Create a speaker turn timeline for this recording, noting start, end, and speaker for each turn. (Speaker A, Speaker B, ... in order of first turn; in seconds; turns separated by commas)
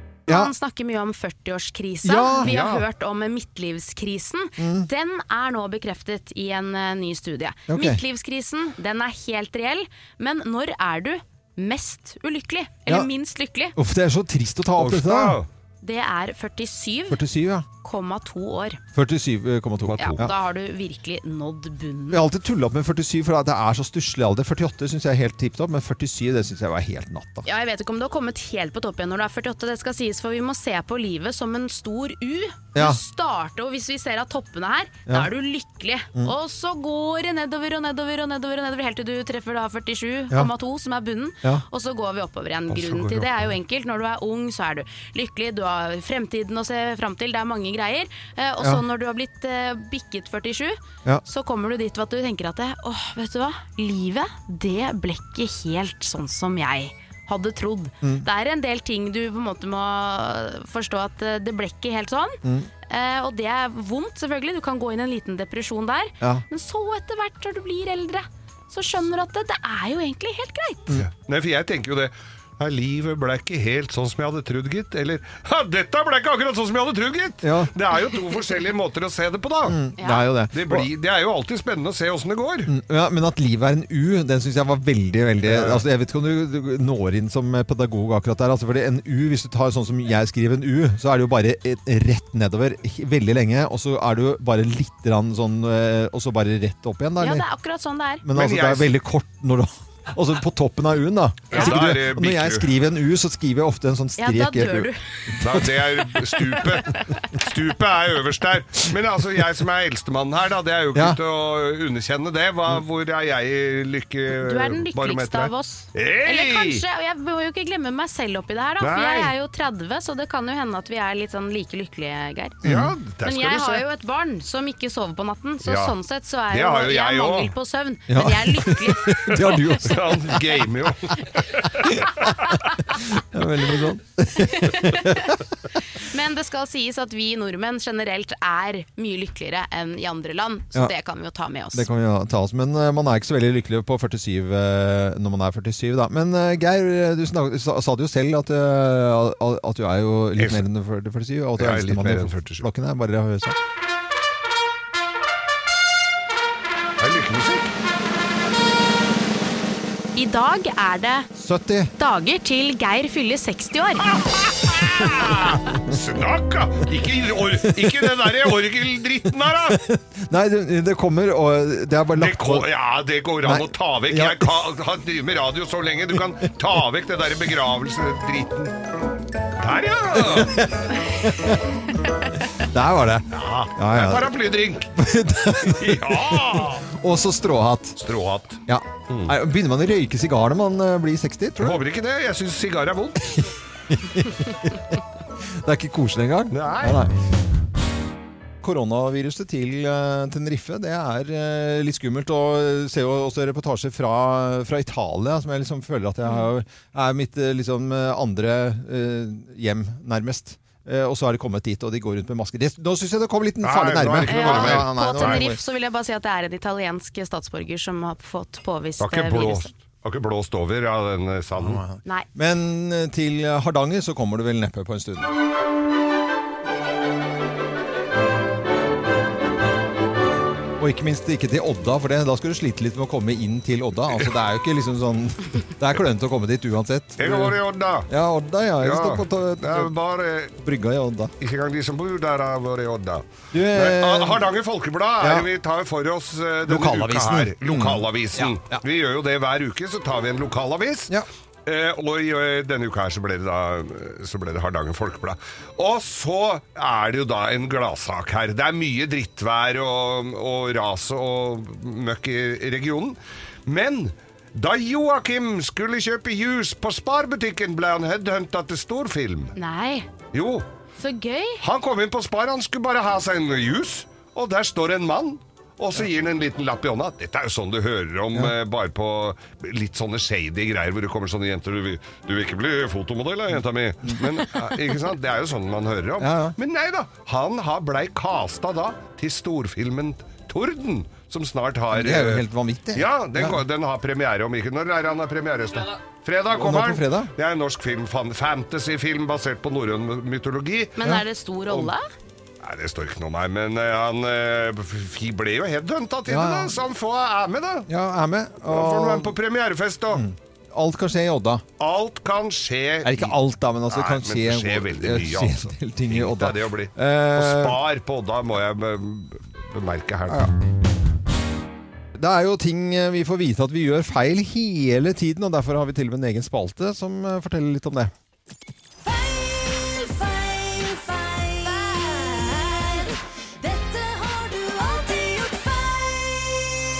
Speaker A: 0.3-13.7, Speaker B: 2.0-2.5, Speaker C: 2.4-2.8, Speaker B: 4.6-4.9, Speaker B: 7.7-8.0, Speaker B: 13.8-15.4, Speaker C: 14.8-15.5, Speaker A: 15.8-17.2, Speaker B: 17.1-17.6, Speaker A: 17.8-18.8, Speaker B: 18.9-20.3, Speaker C: 19.9-20.2, Speaker A: 20.0-22.2, Speaker B: 22.1-27.5, Speaker A: 27.4-70.9, Speaker B: 32.7-33.0, Speaker C: 42.7-43.5, Speaker B: 62.4-62.7, Speaker C: 71.0-79.8, Speaker B: 77.4-77.7, Speaker B: 79.7-80.9, Speaker A: 80.0-80.3, Speaker C: 80.5-82.7, Speaker B: 82.7-97.4, Speaker C: 85.4-85.8, Speaker A: 97.2-98.2, Speaker B: 98.2-105.6, Speaker C: 98.3-98.9, Speaker C: 101.5-102.7, Speaker A: 104.2-105.0, Speaker C: 105.4-116.8, Speaker A: 114.4-122.6, Speaker C: 118.8-119.3, Speaker C: 122.6-123.8, Speaker B: 122.6-122.9, Speaker A: 123.2-129.7, Speaker C: 125.6-125.9, Speaker C: 126.5-127.5, Speaker B: 128.1-130.3, Speaker C: 129.6-132.4, Speaker B: 131.9-132.3, Speaker B: 132.9-135.4, Speaker A: 134.4-135.3, Speaker A: 135.9-141.8, Speaker B: 141.7-153.6, Speaker C: 150.4-150.6, Speaker C: 151.6-152.7, Speaker C: 157.0-157.7, Speaker A: 160.1-161.3, Speaker B: 161.3-161.9, Speaker A: 162.0-164.1, Speaker C: 164.1-169.8, Speaker B: 167.7-168.3, Speaker B: 169.7-172.7, Speaker C: 172.1-178.8, Speaker B: 173.4-174.5, Speaker C: 179.6-180.7, Speaker B: 180.2-181.6, Speaker B: 182.6-184.3, Speaker C: 183.3-186.9, Speaker B: 184.9-188.0, Speaker C: 188.0-189.3, Speaker B: 188.7-191.8, Speaker C: 191.6-193.4, Speaker B: 193.3-197.1, Speaker C: 196.5-197.0, Speaker B: 198.6-215.6, Speaker C: 213.6-215.4, Speaker A: 214.3-219.7, Speaker C: 219.0-221.8, Speaker B: 221.6-225.3, Speaker B: 230.8-239.9, Speaker C: 237.2-238.1, Speaker C: 238.8-240.5, Speaker B: 240.6-241.3, Speaker C: 241.4-251.1, Speaker B: 243.5-244.5, Speaker B: 245.2-245.5, Speaker B: 246.7-248.8, Speaker C: 251.6-269.5, Speaker A: 269.6-270.1, Speaker C: 270.3-270.7, Speaker A: 271.0-271.6, Speaker C: 271.6-300.9, Speaker B: 286.2-286.6, Speaker B: 291.9-293.6, Speaker B: 296.5-297.3, Speaker A: 301.0-302.0, Speaker C: 302.6-307.9, Speaker B: 306.3-306.8, Speaker B: 307.9-309.3, Speaker C: 308.6-310.2, Speaker B: 310.1-311.6, Speaker C: 311.8-320.5, Speaker B: 313.0-317.8, Speaker B: 322.1-328.1, Speaker D: 329.0-336.7